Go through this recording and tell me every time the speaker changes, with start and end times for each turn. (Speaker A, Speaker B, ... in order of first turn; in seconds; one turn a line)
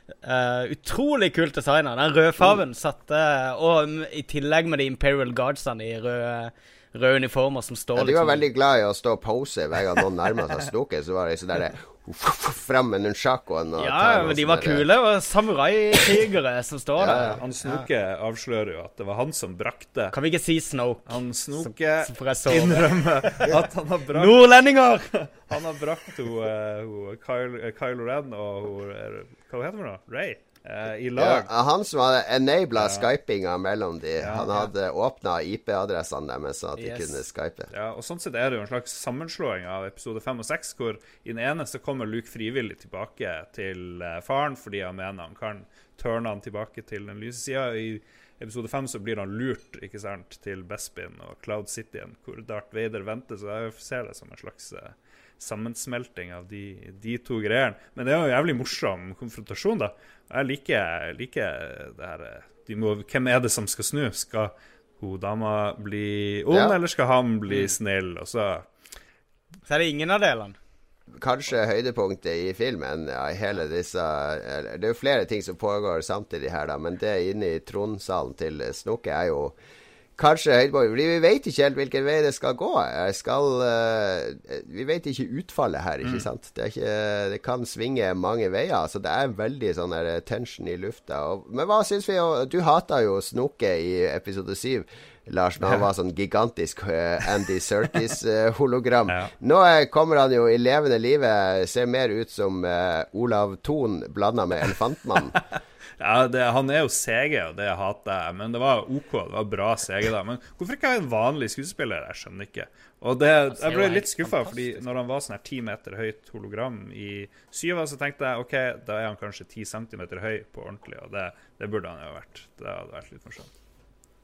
Speaker A: 0.2-8.4
Speaker B: 8.0-14.8
Speaker A: 13.8-17.9
Speaker B: 17.0-17.4
Speaker C: 17.4-20.1
Speaker A: 20.1-23.5
Speaker C: 21.1-24.4
Speaker A: 24.1-25.1
Speaker C: 25.1-31.5
Speaker B: 31.2-37.7
Speaker C: 32.8-33.1
Speaker C: 34.2-34.7
Speaker A: 36.8-37.2
Speaker C: 37.7-68.7
Speaker A: 69.7-70.6
Speaker B: 71.2-79.6
Speaker B: 80.2-105.4
Speaker C: 86.0-86.3
Speaker C: 106.0-123.5
Speaker A: 113.5-114.8